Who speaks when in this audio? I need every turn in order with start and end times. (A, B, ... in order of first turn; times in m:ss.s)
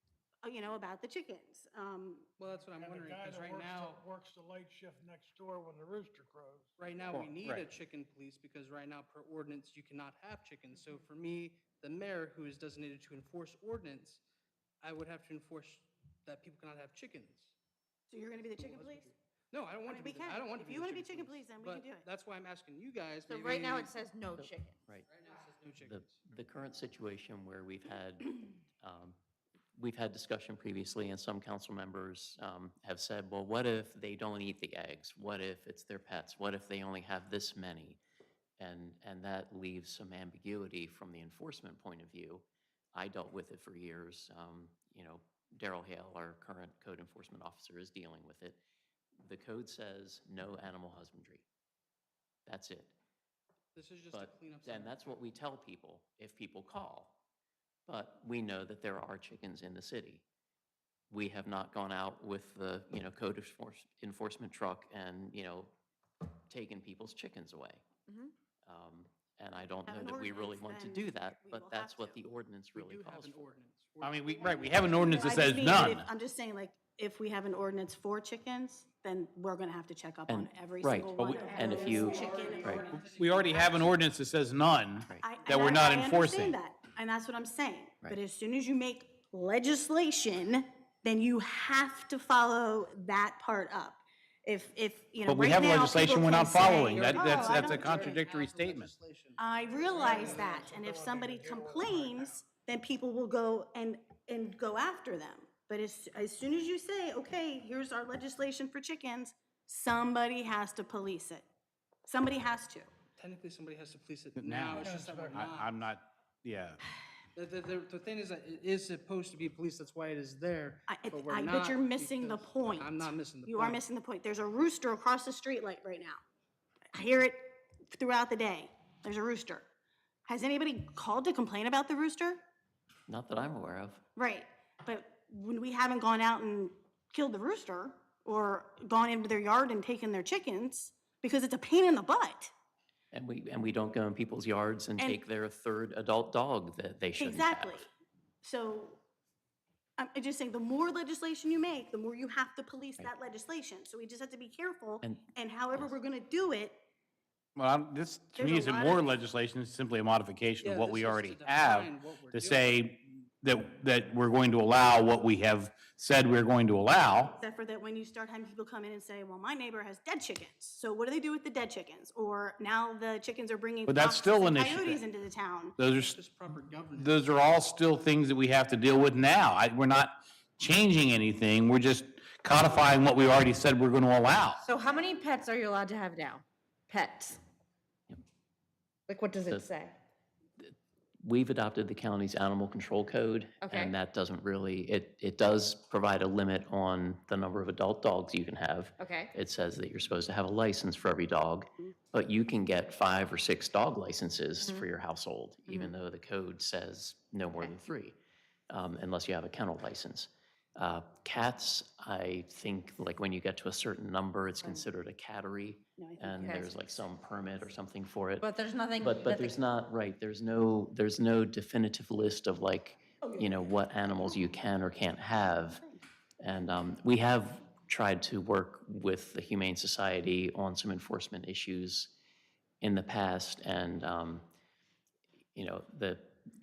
0:00.4-0:02.3 A
0:02.4-0:04.0 B
0:02.7-0:06.7 C
0:06.8-0:14.2 B
0:07.1-0:07.6 D
0:14.8-0:17.5 B
0:18.1-0:19.1 A
0:18.5-0:24.0 B
0:19.8-0:22.1 A
0:23.3-0:24.8 E
0:24.4-0:25.1 F
0:25.1-0:26.3 B
0:25.8-0:29.2 F
0:29.8-0:38.0 F
0:38.6-0:48.6 F
0:49.2-0:51.4 F
0:52.4-0:52.9 F
0:53.7-0:55.2 B
0:54.1-0:57.2 F
0:57.9-1:00.2 F
1:01.1-1:05.7 F
1:06.5-1:07.9 F
1:08.1-1:08.3 E
1:08.6-1:13.6 F
1:09.9-1:12.2 A
1:12.7-1:15.4 B
1:14.0-1:16.1 D
1:15.0-1:23.6 A
1:20.3-1:22.9 F
1:21.2-1:21.5 D
1:21.5-1:23.9 B
1:23.0-1:26.6 D
1:25.2-1:38.2 A
1:35.3-1:38.9 D
1:36.8-1:40.7 B
1:39.4-1:51.4 A
1:39.6-1:42.4 C
1:52.0-1:52.9 A
1:53.2-1:55.8 B
1:54.4-1:56.8 D
1:54.7-1:55.4 C
1:57.3-2:03.8 B
2:00.9-2:06.2 A
2:06.9-2:09.7 A
2:10.2-2:12.4 A
2:13.1-2:14.0 F
2:14.2-2:22.5 A
2:23.1-2:27.9 F
2:27.2-2:27.9 A
2:28.4-2:29.0 A
2:30.0-2:36.8 A
2:35.0-2:35.9 F
2:37.6-2:47.4 D
2:38.4-2:39.2 A
2:40.6-2:42.7 B
2:47.4-2:55.8 A
2:53.8-2:55.0 D
2:55.8-2:56.2 D
2:56.0-2:57.2 B
2:57.0-3:04.6 D
3:04.6-3:07.4 E
3:09.1-3:09.9 E
3:10.6-3:28.2 F
3:13.6-3:13.9 E
3:19.0-3:19.3 E
3:24.6-3:24.8 E
3:28.7-3:45.8 F
3:36.0-3:37.4 A
3:36.4-3:36.7 E
3:38.4-3:39.6 E
3:43.2-3:43.7 A
3:45.5-3:46.0 A
3:46.4-3:52.1 F
3:52.8-3:54.4 F
3:55.5-3:56.4 F